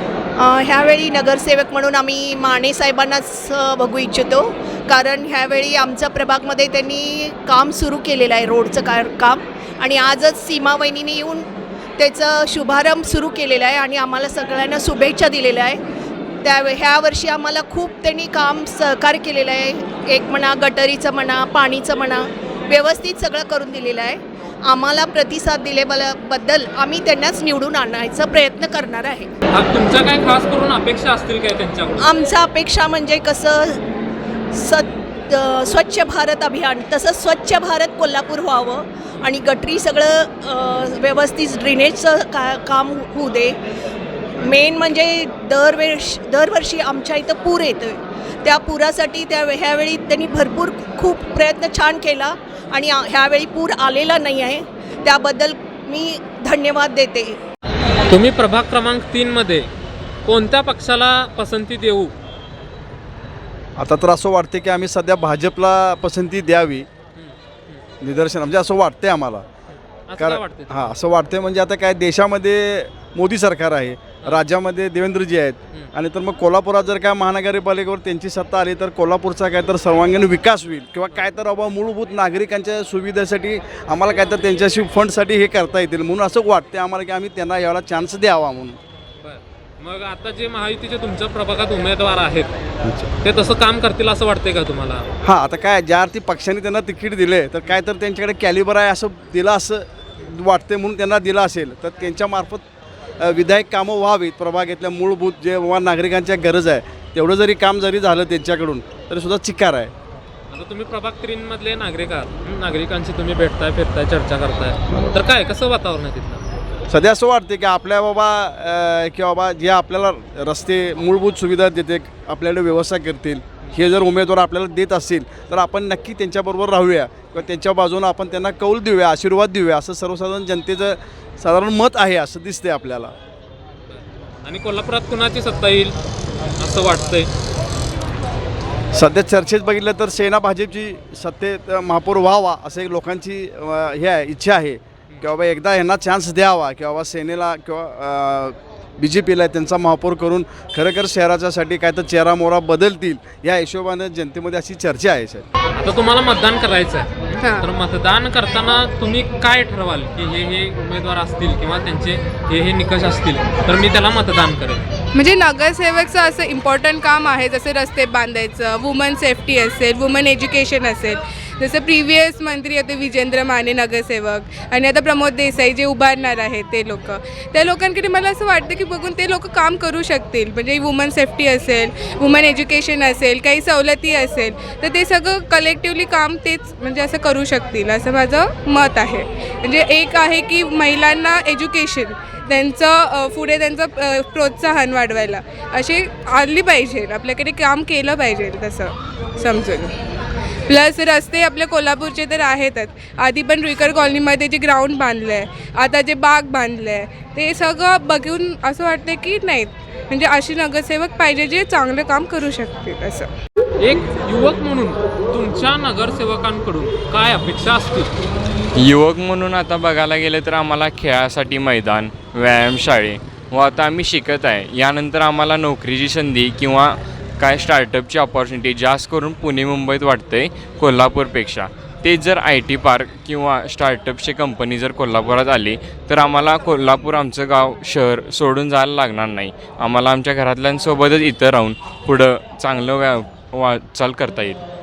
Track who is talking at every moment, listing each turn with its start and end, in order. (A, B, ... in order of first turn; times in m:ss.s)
0:00.4-0:11.4 A
0:12.0-0:15.8 A
0:16.4-0:29.3 A
0:29.5-0:32.1 B
0:32.0-0:33.8 A
0:34.5-0:43.6 A
0:44.4-0:57.4 A
0:58.1-0:59.7 B
1:00.2-1:02.1 B
1:03.8-1:06.9 C
1:07.1-1:07.8 B
1:08.0-1:09.4 C
1:09.7-1:11.0 B
1:10.2-1:28.8 C
1:14.2-1:14.4 B
1:29.2-1:32.6 B
1:33.2-1:35.0 B
1:35.2-1:42.6 C
1:43.2-1:49.9 C
1:50.5-1:56.4 B
1:56.9-2:13.1 C
2:13.9-2:16.0 B
2:16.6-2:17.3 B
2:18.9-2:35.4 C
2:35.8-2:44.8 B
2:37.4-2:37.6 D
2:45.1-3:19.9 D
3:20.7-3:33.3 D
3:33.8-3:38.1 B
3:38.8-4:04.6 E